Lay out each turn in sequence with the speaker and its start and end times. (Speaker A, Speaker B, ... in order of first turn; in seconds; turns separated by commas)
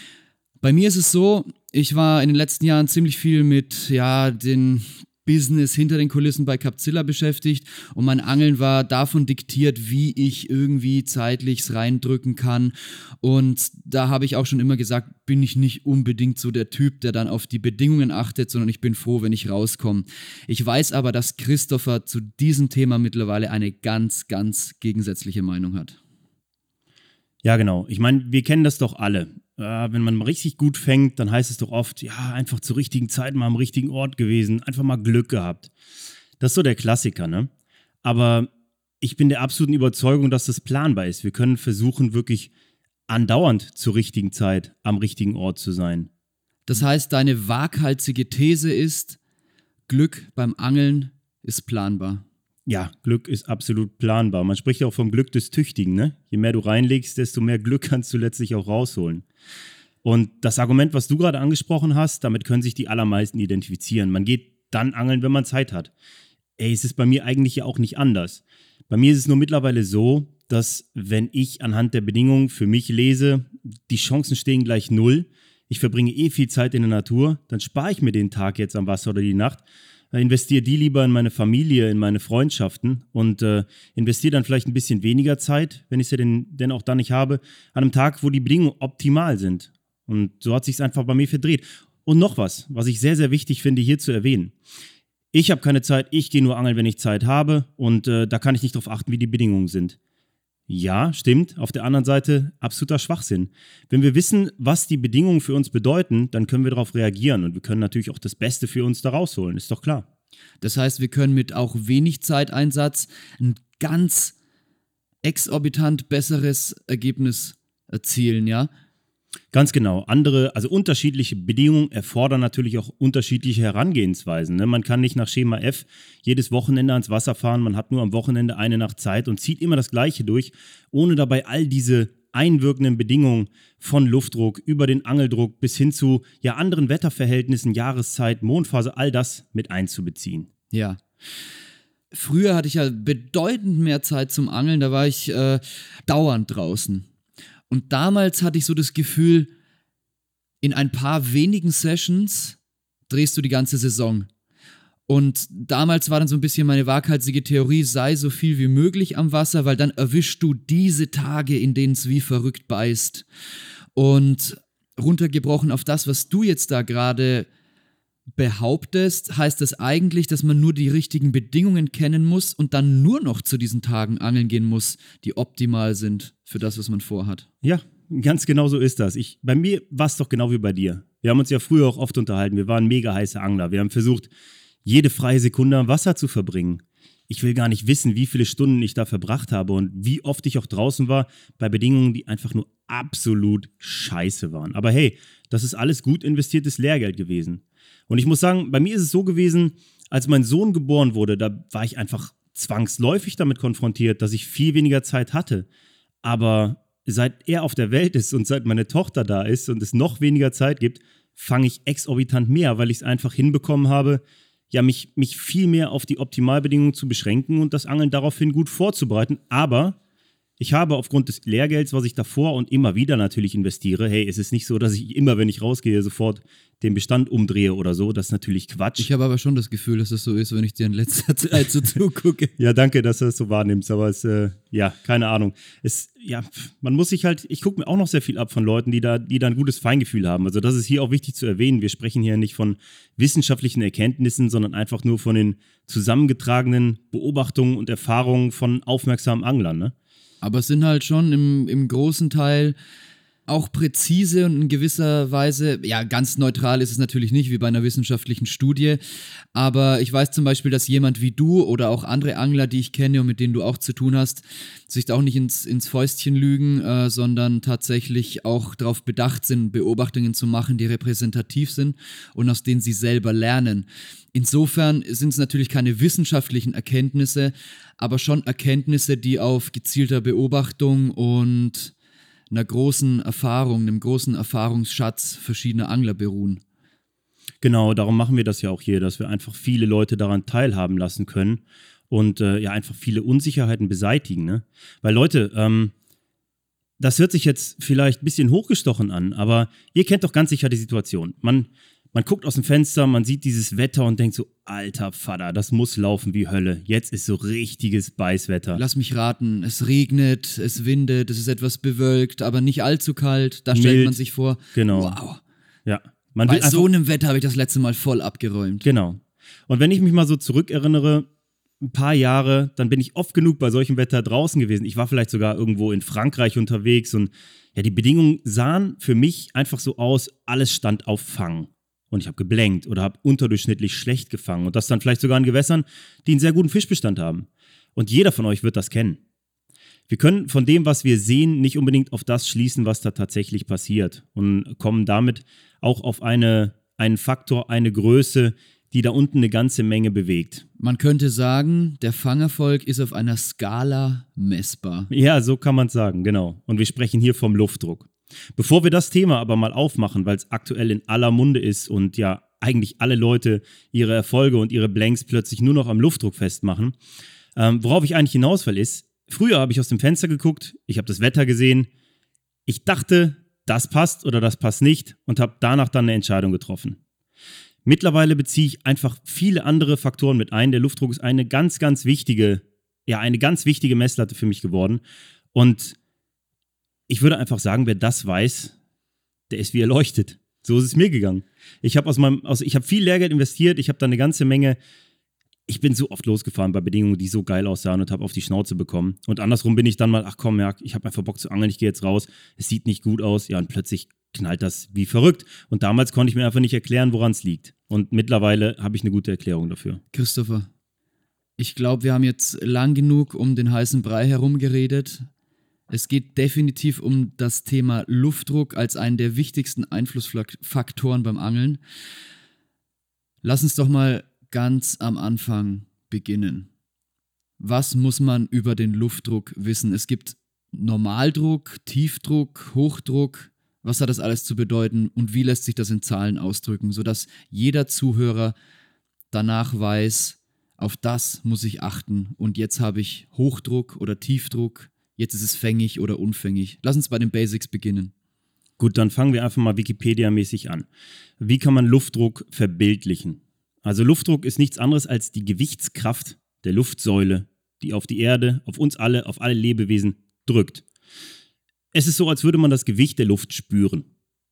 Speaker A: 0.6-26.0, Speaker B: 27.4-35.7, Speaker B: 36.4-37.5, Speaker B: 38.0-38.5, Speaker B: 39.0-42.5, Speaker B: 43.1-46.1, Speaker A: 46.7-49.2, Speaker A: 49.9-52.2, Speaker B: 52.6-59.2, Speaker B: 60.0-65.9, Speaker B: 66.6-94.5, Speaker B: 95.3-100.0, Speaker B: 100.7-110.0, Speaker A: 110.6-114.3, Speaker A: 115.2-118.7, Speaker B: 119.5-140.5, Speaker A: 140.7-141.0, Speaker A: 142.1-147.1, Speaker A: 147.7-149.5, Speaker A: 150.6-152.6, Speaker A: 153.1-154.3, Speaker A: 155.1-163.2, Speaker A: 163.9-167.5, Speaker A: 168.3-177.4, Speaker B: 177.6-184.3, Speaker B: 184.8-205.7, Speaker B: 206.2-220.0, Speaker B: 220.6-229.1, Speaker A: 229.0-232.5, Speaker B: 232.6-249.9, Speaker A: 250.4-252.8, Speaker A: 253.5-259.0, Speaker A: 259.5-281.9, Speaker A: 282.5-286.6, Speaker B: 287.6-295.9, Speaker B: 297.0-308.8, Speaker A: 308.7-315.4, Speaker B: 313.7-314.1, Speaker B: 314.7-315.2, Speaker B: 315.9-316.9, Speaker A: 316.4-318.9, Speaker B: 318.8-321.3, Speaker B: 321.8-339.2, Speaker B: 340.1-350.6, Speaker A: 350.8-355.1, Speaker B: 355.1-366.9, Speaker B: 367.6-371.9, Speaker B: 372.6-377.0, Speaker B: 377.9-385.0, Speaker B: 385.5-386.0, Speaker B: 387.1-388.7, Speaker B: 389.5-394.8, Speaker B: 395.7-410.0, Speaker A: 410.1-410.7, Speaker A: 411.6-415.3, Speaker A: 415.9-421.8, Speaker A: 423.4-426.7, Speaker A: 427.6-438.5, Speaker A: 439.3-448.1, Speaker B: 448.8-450.9, Speaker B: 451.4-460.8, Speaker B: 461.9-464.1